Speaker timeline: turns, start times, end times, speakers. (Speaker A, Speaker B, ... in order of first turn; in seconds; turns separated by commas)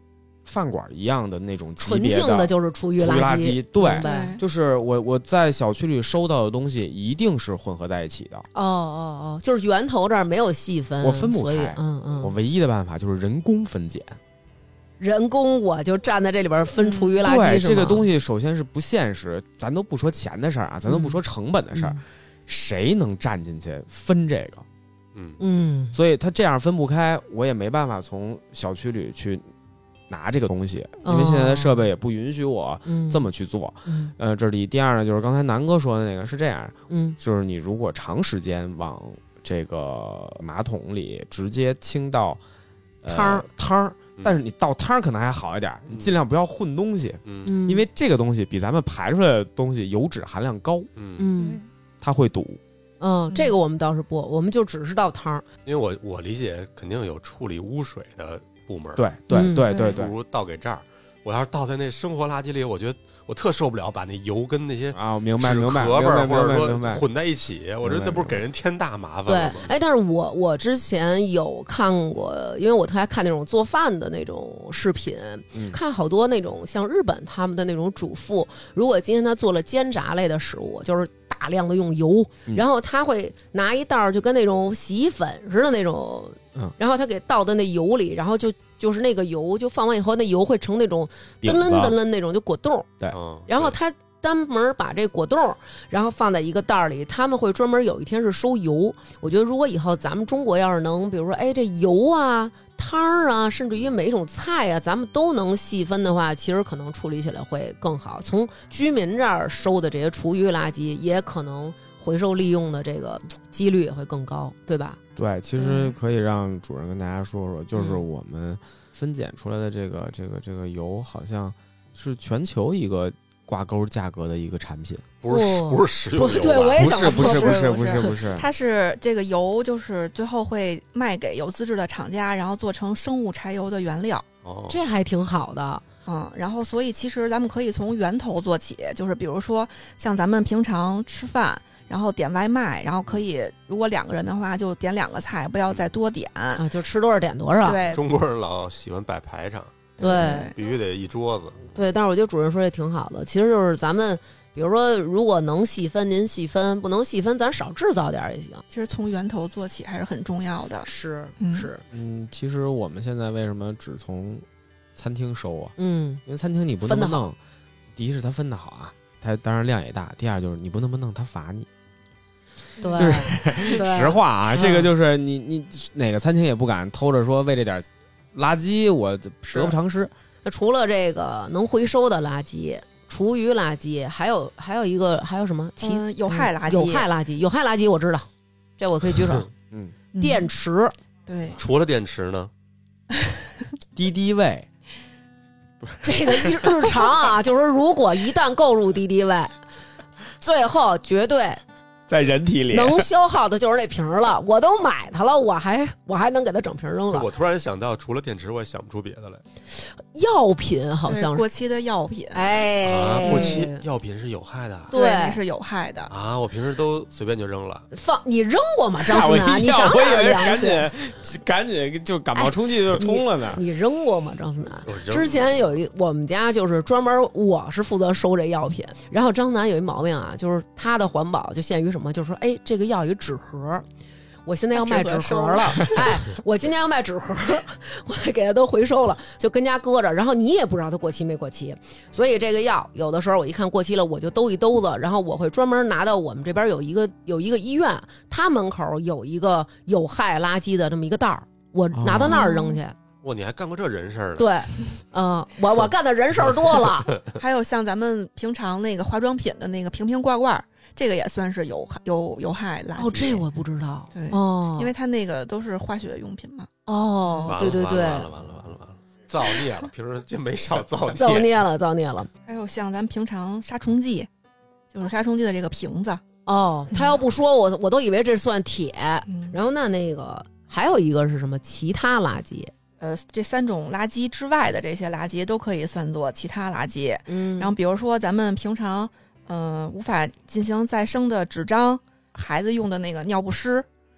Speaker A: 0.5-8.5, Speaker B: 1.8-4.4, Speaker C: 3.9-4.4, Speaker B: 8.5-12.3, Speaker A: 11.0-14.2, Speaker B: 15.0-18.1, Speaker C: 16.8-17.2, Speaker A: 17.2-24.6, Speaker B: 20.9-21.2, Speaker B: 21.7-22.0, Speaker D: 25.1-25.4, Speaker B: 25.4-26.0, Speaker A: 25.9-29.5, Speaker A: 30.1-42.4, Speaker B: 31.0-31.9, Speaker B: 32.9-33.3, Speaker B: 33.9-34.1, Speaker B: 36.9-37.2, Speaker A: 43.0-50.9, Speaker B: 43.1-43.5, Speaker D: 45.9-46.1, Speaker D: 47.2-47.5, Speaker B: 47.5-47.9, Speaker D: 51.0-51.3, Speaker B: 51.2-51.6, Speaker C: 51.4-51.7, Speaker A: 52.0-52.6, Speaker B: 53.0-55.5, Speaker D: 55.7-59.0, Speaker A: 59.0-60.1, Speaker B: 59.3-59.7, Speaker C: 59.7-60.0, Speaker D: 59.7-69.7, Speaker A: 64.9-67.0, Speaker A: 67.8-68.4, Speaker B: 69.3-92.9, Speaker A: 75.5-75.8, Speaker A: 91.4-92.0, Speaker D: 93.1-93.8, Speaker B: 93.5-115.0, Speaker A: 115.2-125.1, Speaker C: 115.6-115.9, Speaker B: 117.8-118.0, Speaker D: 125.2-126.8, Speaker B: 125.3-128.1, Speaker A: 126.7-128.5, Speaker C: 126.8-134.3, Speaker D: 134.4-134.8, Speaker B: 134.7-135.8, Speaker C: 136.1-146.6, Speaker D: 145.7-145.9, Speaker B: 146.6-147.8, Speaker C: 147.6-148.0, Speaker D: 147.9-151.6, Speaker C: 150.0-150.6, Speaker B: 150.0-150.5, Speaker B: 151.7-158.6, Speaker C: 158.7-161.7, Speaker B: 160.8-161.8, Speaker A: 161.9-164.4, Speaker A: 165.0-165.8, Speaker B: 165.8-166.2, Speaker A: 166.3-167.4, Speaker B: 166.8-167.3, Speaker A: 168.0-171.7, Speaker C: 172.8-173.2, Speaker B: 172.8-174.9, Speaker A: 172.9-180.1, Speaker B: 179.5-179.8, Speaker B: 180.4-188.3, Speaker C: 185.8-187.1, Speaker B: 188.8-189.5, Speaker C: 190.1-190.5, Speaker B: 190.2-190.9, Speaker C: 191.3-191.6, Speaker D: 191.6-192.5, Speaker A: 193.9-194.7, Speaker A: 195.8-196.9, Speaker B: 196.0-199.6, Speaker B: 200.4-201.6, Speaker A: 202.1-203.1, Speaker B: 202.7-207.3, Speaker D: 207.1-209.4, Speaker B: 209.7-211.4, Speaker C: 211.1-213.6, Speaker B: 212.3-213.8, Speaker D: 212.8-214.9, Speaker B: 214.9-215.4, Speaker C: 214.9-216.1, Speaker D: 216.1-217.9, Speaker B: 217.9-220.9, Speaker A: 219.0-223.6, Speaker B: 222.4-233.9, Speaker D: 224.9-225.8, Speaker B: 234.5-253.0, Speaker C: 234.7-236.1, Speaker A: 251.9-252.5, Speaker C: 252.3-252.8, Speaker D: 253.2-254.5, Speaker B: 254.4-257.2, Speaker C: 257.4-263.5, Speaker B: 263.0-264.9, Speaker C: 264.1-266.7, Speaker B: 266.9-268.3, Speaker C: 267.2-267.7, Speaker D: 267.5-271.5, Speaker B: 271.2-272.3, Speaker C: 272.5-274.3, Speaker C: 274.9-276.2, Speaker B: 276.5-282.7, Speaker C: 276.9-277.2, Speaker C: 279.3-279.6, Speaker C: 283.0-293.9, Speaker B: 287.3-287.7